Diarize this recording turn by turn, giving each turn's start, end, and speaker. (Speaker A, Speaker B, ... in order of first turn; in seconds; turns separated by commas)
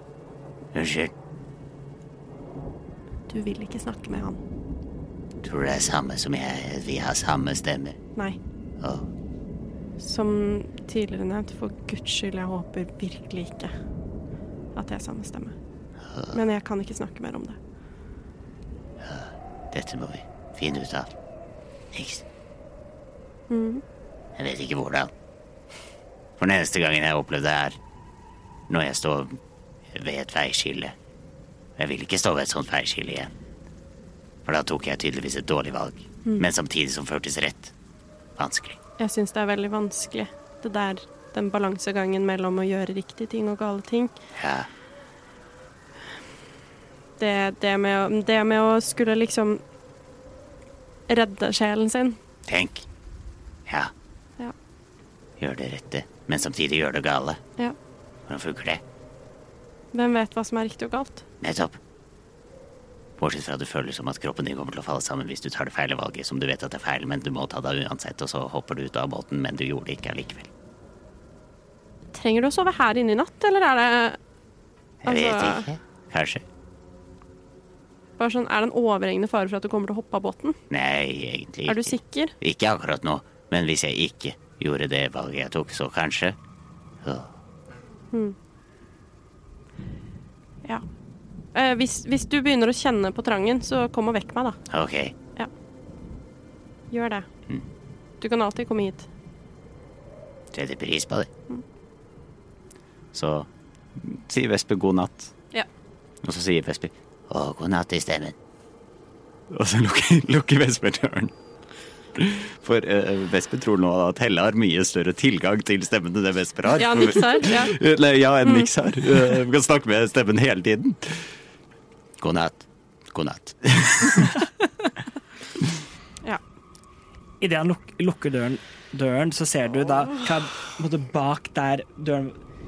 Speaker A: 0.7-1.1, Speaker B: 3.3-4.4, Speaker A: 5.4-8.0, Speaker A: 8.8-9.1, Speaker B: 10.0-13.7, Speaker B: 14.7-15.5, Speaker A: 16.1-16.4, Speaker B: 16.3-17.6, Speaker A: 19.0-21.1, Speaker A: 21.9-22.2, Speaker B: 23.5-23.8, Speaker A: 24.4-25.1, Speaker A: 26.4-27.8, Speaker A: 28.7-29.4, Speaker A: 29.9-30.9, Speaker A: 31.8-33.3, Speaker A: 34.5-37.7, Speaker A: 38.4-38.8, Speaker B: 39.0-44.1, Speaker A: 44.4-44.7, Speaker B: 47.2-49.6, Speaker B: 51.1-52.2, Speaker A: 52.5-52.8, Speaker A: 55.4-57.4, Speaker A: 58.3-58.8, Speaker B: 59.9-61.2, Speaker A: 61.4-61.8, Speaker A: 63.2-70.5, Speaker B: 72.1-74.2, Speaker B: 75.0-75.7, Speaker A: 75.0-76.4, Speaker B: 78.2-80.6, Speaker A: 80.7-86.4, Speaker B: 81.7-82.3, Speaker A: 87.0-87.3, Speaker B: 91.5-94.6, Speaker A: 94.7-95.1, Speaker B: 96.9-97.2, Speaker B: 98.2-99.1, Speaker A: 100.5-101.3, Speaker A: 103.1-103.5, Speaker C: 104.0-105.3, Speaker A: 106.2-108.3, Speaker C: 109.5-111.3, Speaker C: 112.2-121.2, Speaker A: 116.5-117.2, Speaker B: 116.7-117.8, Speaker B: 118.4-118.7, Speaker A: 122.2-124.4, Speaker D: 127.4-132.3